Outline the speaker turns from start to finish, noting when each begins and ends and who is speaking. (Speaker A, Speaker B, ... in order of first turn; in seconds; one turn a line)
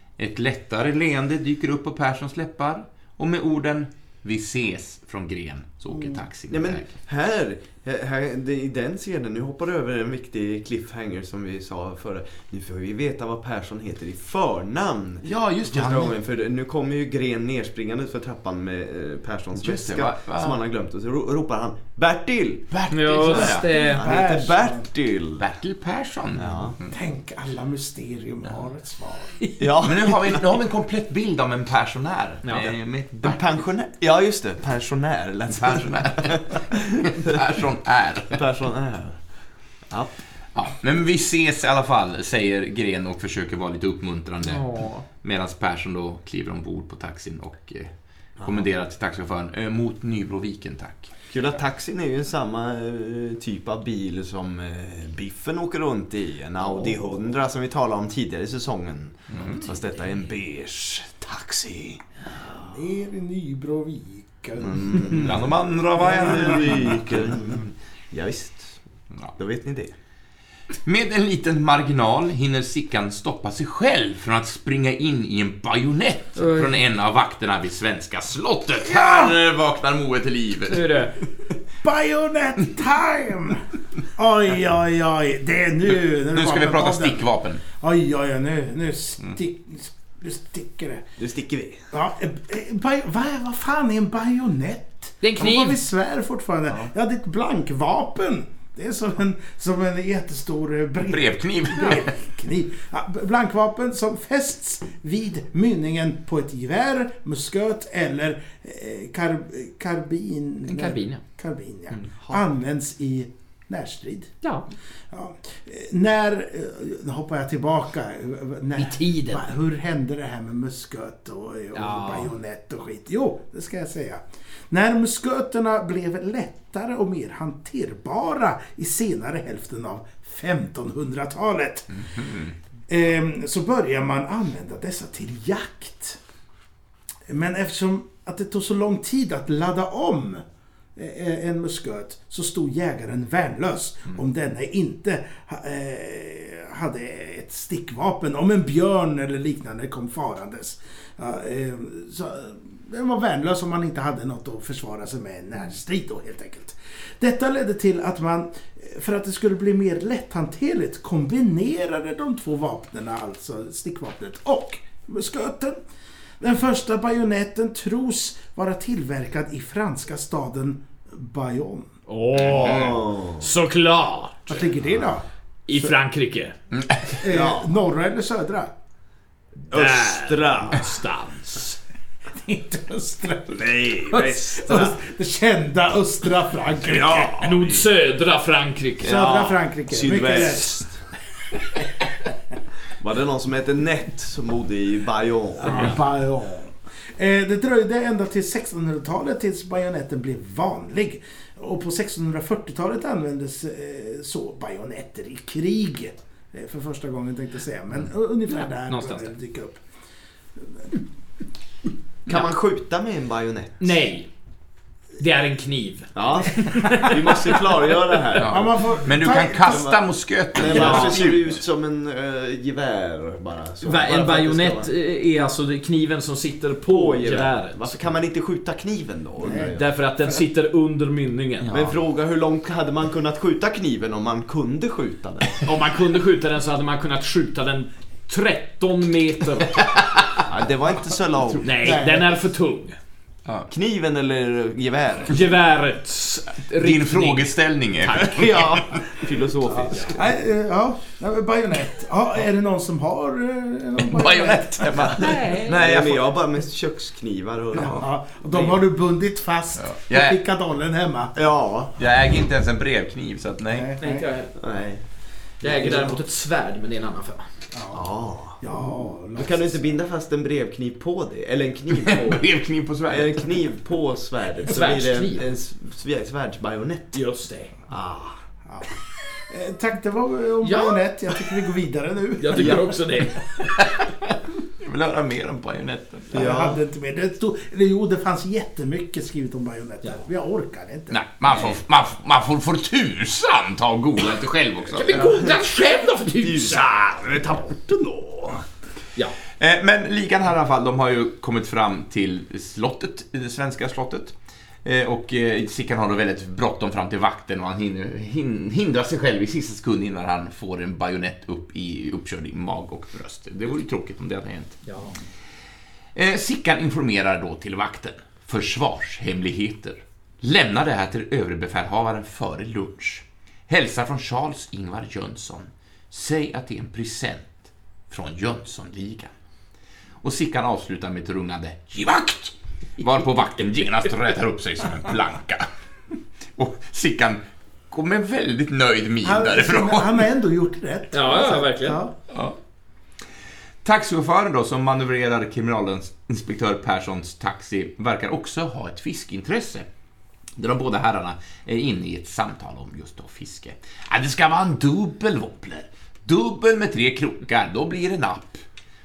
Speaker A: 0.2-6.9
Speaker B: 6.5-22.7
Speaker A: 15.2-16.1
Speaker A: 19.6-20.6
Speaker A: 22.7-23.7
Speaker C: 22.9-24.2
Speaker D: 23.3-24.9
Speaker B: 23.3-25.4
Speaker A: 25.4-26.9
Speaker B: 26.3-26.8
Speaker D: 26.9-29.4
Speaker B: 29.6-30.4
Speaker A: 29.8-33.5
Speaker C: 32.4-32.7
Speaker B: 33.2-37.3
Speaker A: 35.5-38.4
Speaker B: 38.3-39.2
Speaker B: 39.9-40.2
Speaker A: 40.5-51.1
Speaker C: 44.4-45.0
Speaker B: 48.4-48.7
Speaker B: 51.3-62.5
Speaker A: 59.3-59.6
Speaker D: 62.5-65.4
Speaker B: 64.6-68.8
Speaker A: 65.1-67.2
Speaker D: 66.0-67.0
Speaker B: 69.3-69.9
Speaker A: 70.8-81.0
Speaker C: 76.4-76.8
Speaker D: 78.8-79.4
Speaker C: 80.7-81.1
Speaker D: 81.8-83.6
Speaker D: 84.1-91.0
Speaker A: 85.9-87.6
Speaker B: 91.2-91.9
Speaker D: 91.9-114.3
Speaker C: 95.2-95.8
Speaker A: 101.0-102.1
Speaker C: 110.7-111.2
Speaker B: 112.1-112.4
Speaker C: 114.4-114.7
Speaker D: 115.1-131.9
Speaker C: 118.8-119.5
Speaker C: 121.7-122.3
Speaker A: 131.9-132.5
Speaker D: 132.9-136.2
Speaker D: 137.3-140.4
Speaker D: 140.9-165.8
Speaker D: 166.4-171.9
Speaker C: 172.1-174.6
Speaker A: 172.4-172.9
Speaker B: 172.5-173.5
Speaker D: 174.5-175.2
Speaker C: 175.7-176.5
Speaker A: 176.7-177.2
Speaker D: 177.2-178.7
Speaker B: 177.2-177.7
Speaker B: 179.7-180.8
Speaker C: 179.7-181.8
Speaker D: 182.3-187.3
Speaker B: 183.5-185.0
Speaker B: 186.8-187.8
Speaker C: 187.3-189.2
Speaker B: 189.0-191.0
Speaker D: 189.0-190.8
Speaker B: 193.0-196.0
Speaker D: 195.6-209.8
Speaker C: 195.6-196.0
Speaker C: 208.8-209.3
Speaker D: 210.6-210.9
Speaker B: 212.2-214.0
Speaker C: 212.3-212.5
Speaker C: 213.8-214.3
Speaker C: 215.2-217.8
Speaker B: 216.1-218.7
Speaker A: 218.3-221.6
Speaker D: 218.4-219.9
Speaker B: 219.6-220.0
Speaker B: 220.5-224.9
Speaker C: 220.7-221.3
Speaker C: 223.8-227.9
Speaker B: 226.8-229.8
Speaker D: 229.4-229.8
Speaker C: 229.5-231.8
Speaker A: 231.6-231.9
Speaker B: 231.7-235.6
Speaker C: 235.6-239.8
Speaker B: 240.5-241.9
Speaker C: 241.6-243.0
Speaker D: 241.8-242.2
Speaker B: 243.7-245.5
Speaker C: 245.3-248.6
Speaker A: 246.8-248.8
Speaker B: 248.2-250.4
Speaker C: 249.7-250.2
Speaker D: 250.1-255.4
Speaker A: 254.0-256.3
Speaker C: 255.2-255.8
Speaker B: 255.5-258.1
Speaker D: 257.7-261.4
Speaker A: 259.8-260.4
Speaker B: 261.3-261.9
Speaker A: 262.0-263.9
Speaker D: 263.7-264.2
Speaker C: 264.0-264.5
Speaker B: 264.6-265.0
Speaker C: 265.6-267.5
Speaker D: 265.6-266.2
Speaker D: 267.7-269.9
Speaker B: 267.9-268.7
Speaker B: 269.3-272.4
Speaker A: 271.9-273.6
Speaker B: 273.1-277.2
Speaker C: 274.6-275.4
Speaker C: 277.1-277.7
Speaker B: 277.9-278.4
Speaker D: 278.6-283.0
Speaker C: 280.6-281.1
Speaker C: 282.4-283.4
Speaker B: 282.5-282.9
Speaker A: 283.8-284.1
Speaker A: 284.8-286.5
Speaker D: 286.3-291.2
Speaker B: 286.3-286.8
Speaker A: 291.1-296.9
Speaker C: 295.0-296.7
Speaker B: 295.2-295.5
Speaker B: 296.4-298.6
Speaker A: 299.6-314.8
Speaker C: 314.9-315.1
Speaker A: 316.1-329.3
Speaker A: 330.2-335.6
Speaker A: 336.6-340.3
Speaker D: 339.2-342.1
Speaker C: 341.1-342.0
Speaker A: 342.3-342.5
Speaker A: 343.8-349.9
Speaker A: 350.6-358.6